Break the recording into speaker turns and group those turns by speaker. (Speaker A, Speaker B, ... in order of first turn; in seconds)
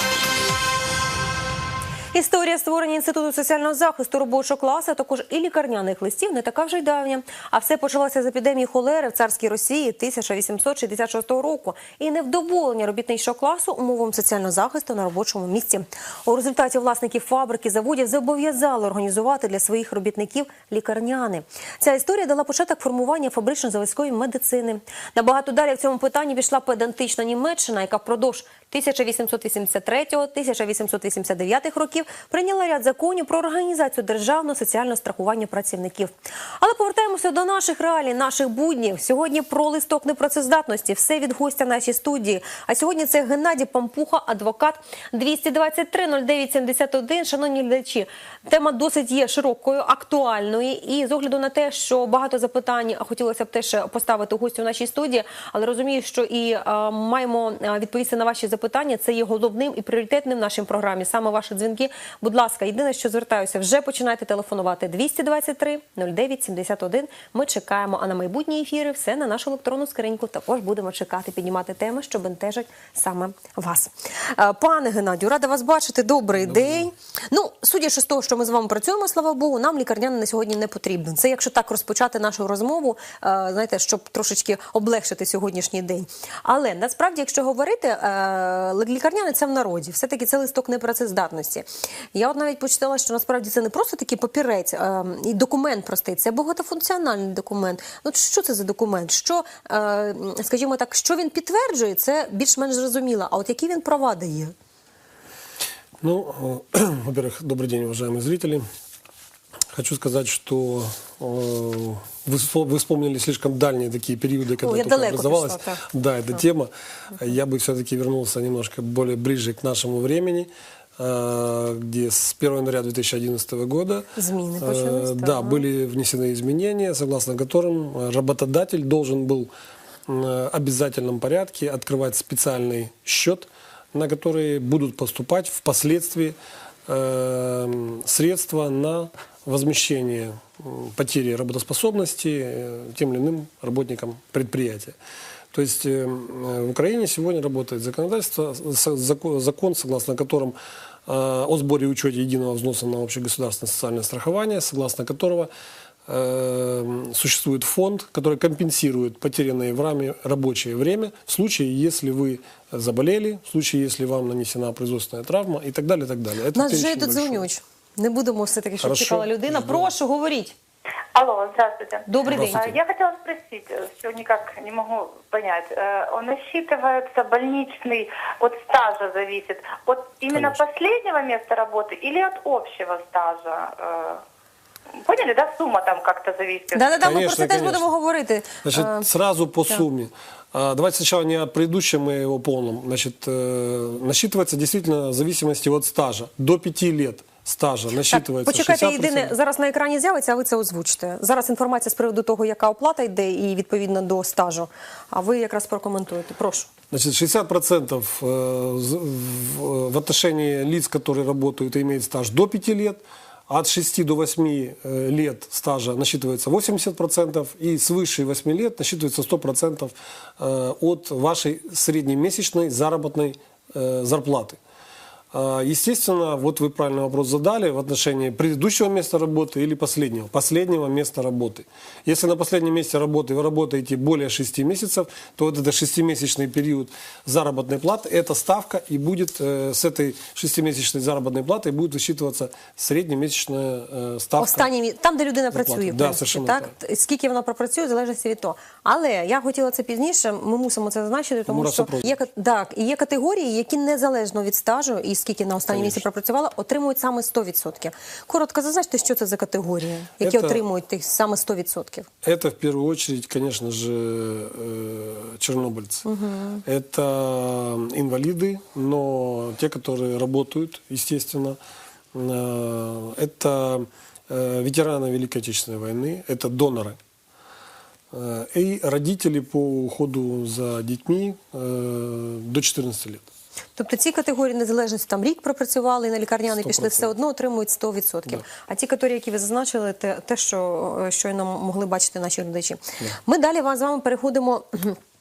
Speaker A: 2.1-104.5, 114.6-115.8, 124.2-125.7, 166.5-170.6, 172.1-172.7, 186.7-189.1, 198.1-206.7, 244.4-262.1, 266.1-266.6, 283.8-295.0
Speaker B: 76.4-76.9, 106.0-108.7, 109.7-129.5, 130.1-136.4, 136.9-145.0, 145.5-155.5, 156.1-167.5, 168.8-169.9, 172.3-172.8, 187.0-187.9, 188.6-199.3, 206.9-224.6, 225.3-244.7, 245.5-246.7, 251.5-252.2, 255.7-256.0, 260.2-260.6, 262.2-266.1, 266.7-271.6, 272.1-277.0, 278.1-283.3, 286.5-287.1
Speaker C: 171.2-184.2, 185.0-187.2